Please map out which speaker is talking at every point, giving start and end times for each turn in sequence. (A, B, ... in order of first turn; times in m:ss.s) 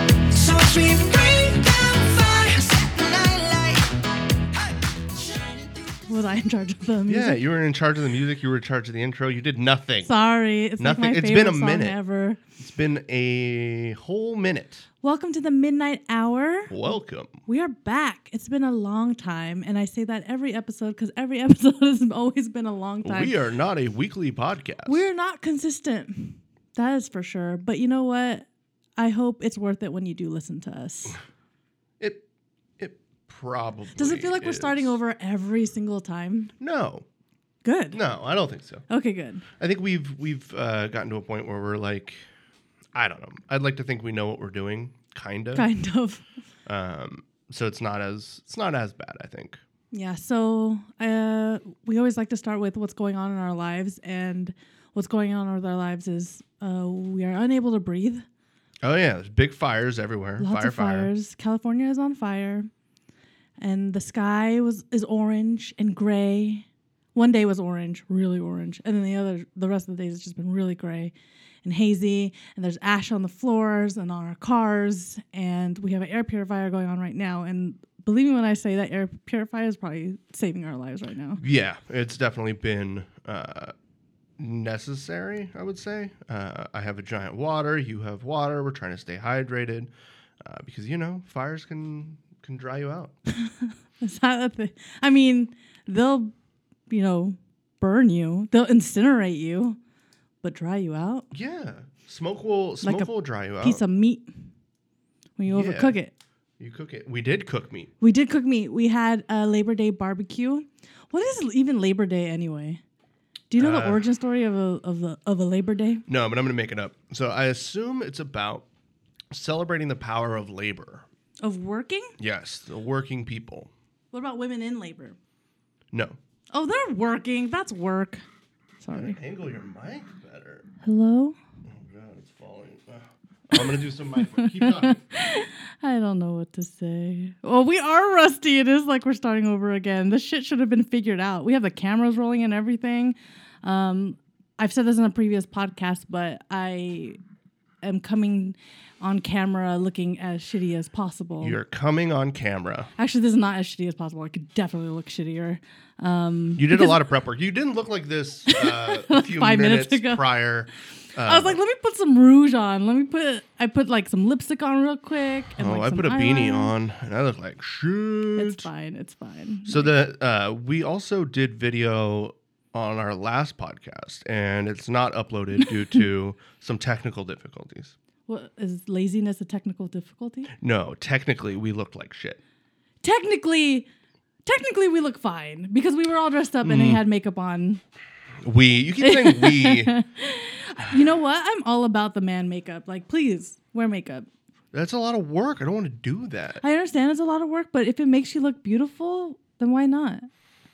0:00.3-0:05.8 A
0:06.1-0:07.4 B
0:07.1-0:10.1 C
0:10.0-0:12.4 B
0:10.8-0:12.0 C
0:12.6-0:14.8 C
0:15.0-0:16.8 B
0:16.7-0:17.3 C
0:17.4-0:23.3 B
0:23.0-0:25.1 C
0:24.8-0:31.2 B
0:32.8-0:35.0 C
0:34.0-0:36.5 B
0:36.6-0:37.0 C
0:37.6-0:38.0 B
0:37.9-0:38.8 C
0:38.9-0:39.4 B
0:39.6-0:42.2 C
0:42.9-0:45.7 C
0:45.5-0:46.2 B
0:46.6-0:49.6 C
0:49.9-0:58.2 B
0:58.8-1:01.1 C
1:00.4-1:02.7 B
1:03.6-1:11.1 B
1:11.6-1:21.4 B
1:21.4-1:23.7 C
1:24.4-1:33.1 C
1:33.4-1:36.3 B
1:36.9-1:39.8 B
1:40.4-1:41.2 B
1:41.3-1:43.8 C
1:42.8-1:44.3 B
1:45.4-1:46.1 B
1:45.5-1:45.9 C
1:46.6-1:47.9 C
1:48.0-1:52.8 B
1:53.5-1:56.0 B
1:53.6-1:54.0 C
1:56.1-1:58.6 C
1:59.3-2:01.0 C
2:01.4-2:02.1 B
2:02.2-2:03.7 C
2:04.1-2:05.2 B
2:05.9-2:06.2 C
2:06.5-2:08.2 B
2:08.8-2:09.2 B
2:08.9-2:10.6 C
2:10.8-2:11.4 B
2:11.6-2:15.0 C
2:14.3-2:27.2 B
2:27.8-2:31.6 B
2:31.4-2:32.9 C
2:33.0-2:37.0 B
2:36.6-2:41.6 C
2:38.5-2:40.2 B
2:41.2-2:46.7 B
2:45.6-2:48.7 C
2:48.4-2:49.9 B
2:49.7-2:57.9 C
2:58.3-3:00.5 B
3:00.6-3:02.4 C
3:03.0-3:03.9 B
3:04.4-3:07.8 B
3:06.6-3:07.0 C
3:08.4-3:09.9 C
3:09.0-3:14.3 B
3:14.7-3:16.6 C
3:16.6-3:20.3 B